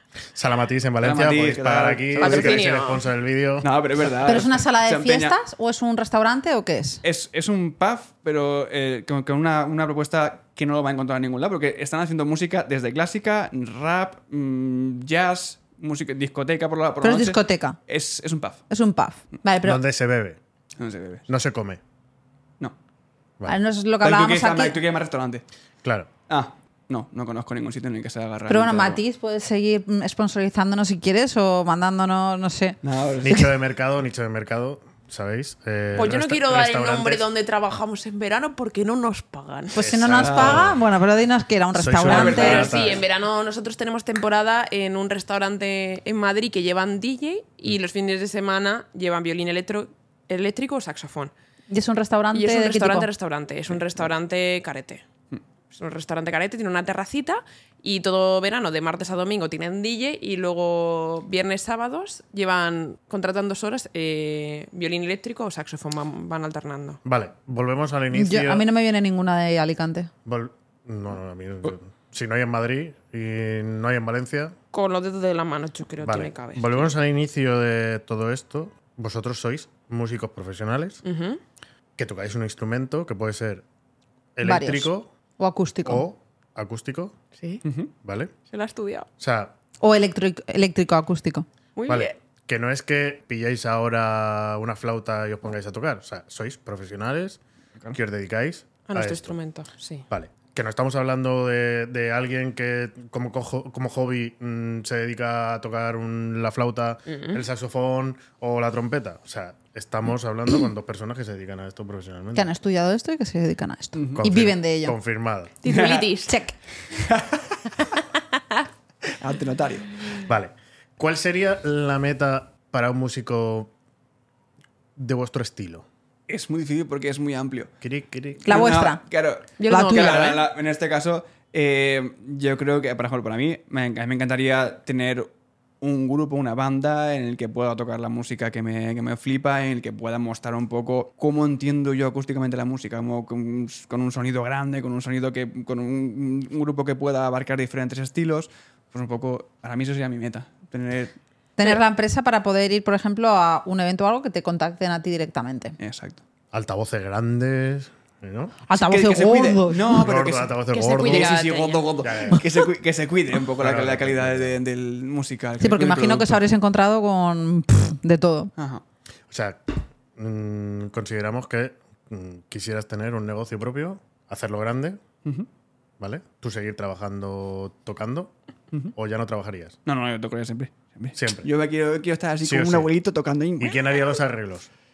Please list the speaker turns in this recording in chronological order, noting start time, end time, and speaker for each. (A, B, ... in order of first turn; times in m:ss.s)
0:00.3-0:03.7 A
0:01.0-0:02.7 B
0:02.2-0:03.0 C
0:03.6-0:05.4 B
0:04.2-0:07.0 D
0:07.0-0:18.6 B
0:17.0-0:17.8 D
0:18.7-0:19.8 D
0:19.6-0:20.4 A
0:20.8-0:21.2 B
0:21.3-0:21.8 A
0:23.4-0:24.8 D
0:24.0-0:25.4 B
0:25.8-0:26.1 A
0:26.3-0:29.0 B
0:28.5-0:32.8 D
0:32.8-0:33.5 B
0:33.2-0:37.2 A
0:35.9-0:39.8 C
0:39.7-0:42.7 D
0:39.8-0:40.8 A
0:40.1-0:40.7 B
0:41.7-0:43.0 A
0:42.0-0:43.0 B
0:42.1-0:51.3 C
0:51.7-0:53.1 D
0:52.3-0:55.0 C
0:55.7-1:07.0 C
1:07.0-1:08.6 A
1:08.1-1:10.1 D
1:10.2-1:14.5 A
1:14.7-1:16.9 C
1:16.0-1:21.0 A
1:21.0-1:21.4 C
1:22.0-1:23.6 A
1:24.4-1:25.1 A
1:24.4-1:26.0 D
1:25.8-1:27.1 A
1:27.4-1:27.6 C
1:27.6-1:27.9 B
1:28.0-1:28.3 A
1:28.5-1:29.1 C
1:29.2-1:29.5 A
1:29.8-1:31.4 D
1:31.8-1:32.1 C
1:31.9-1:37.4 A
1:37.9-1:39.4 A
1:38.9-1:40.0 C
1:40.1-1:52.5 A
1:47.1-1:47.4 C
1:52.3-1:55.0 D
1:53.9-1:54.2 B
1:54.2-1:55.5 A
1:55.6-1:56.4 C
1:55.6-1:56.1 B
1:56.2-1:56.5 D
1:56.9-1:57.6 B
1:59.2-2:00.1 B
2:00.2-2:03.7 A
2:05.0-2:05.8 A
2:06.3-2:07.7 B
2:07.8-2:08.7 A
2:08.4-2:15.3 B
2:08.4-2:09.0 D
2:09.6-2:10.4 C
2:09.7-2:10.3 D
2:15.8-2:31.1 B
2:31.6-2:35.7 D
2:35.8-2:36.2 B
2:36.5-2:38.6 A
2:38.7-2:40.0 D
2:38.7-2:46.4 B
2:39.9-2:41.4 A
2:40.7-2:41.9 C
2:42.0-2:42.4 A
2:43.6-2:44.6 A
2:45.6-2:48.5 D
2:48.6-2:48.8 B
2:49.3-2:55.0 A
2:56.0-2:58.3 A
2:58.9-2:59.8 A
2:59.8-3:03.8 B
3:01.1-3:01.5 A
3:02.4-3:02.9 A
3:03.6-3:04.7 A